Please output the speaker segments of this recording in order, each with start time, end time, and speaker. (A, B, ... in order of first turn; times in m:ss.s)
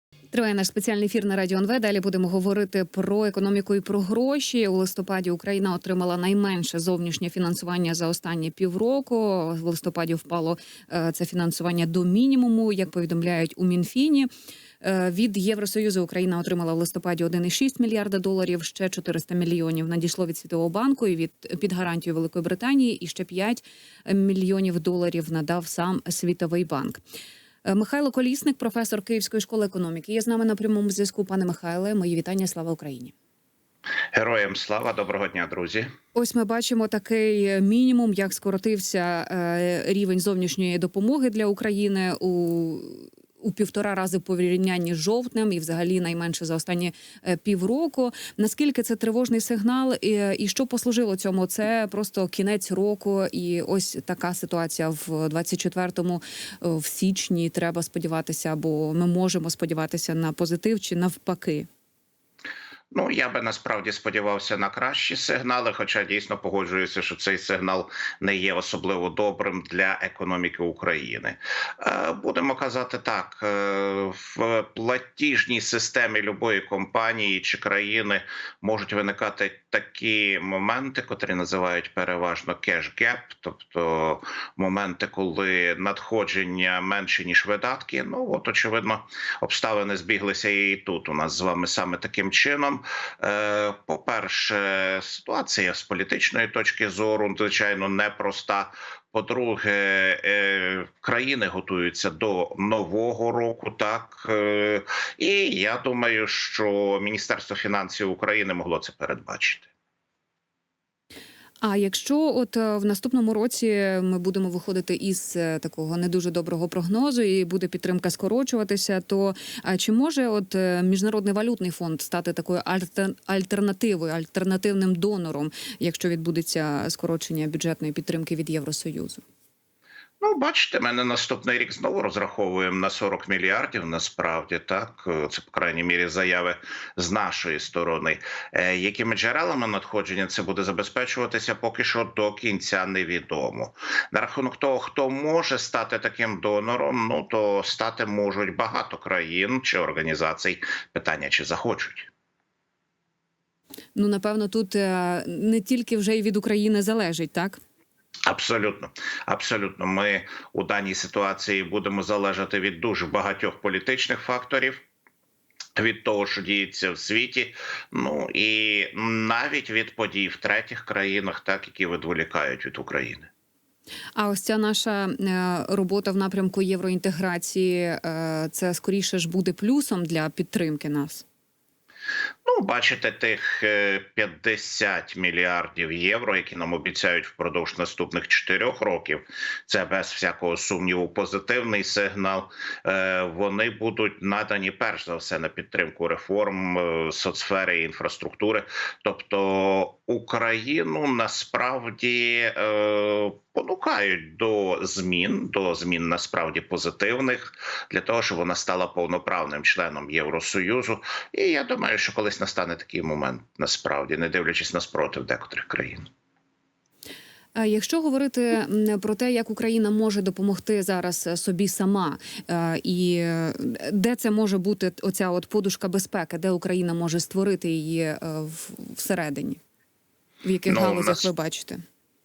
0:00.3-0:14.3 A
0:14.8-0:27.0 A
0:27.6-0:33.1 A
0:34.1-0:35.9 B
0:36.2-1:01.7 A
1:02.9-1:49.7 B
1:51.6-2:09.2 A
2:10.2-2:32.1 B
2:34.0-2:37.6 A
2:38.3-2:44.8 B
2:45.8-2:53.3 B
2:54.2-3:01.2 A
3:02.5-3:36.0 B
3:37.6-3:49.6 A
3:50.4-3:51.8 A
3:50.7-3:51.3 B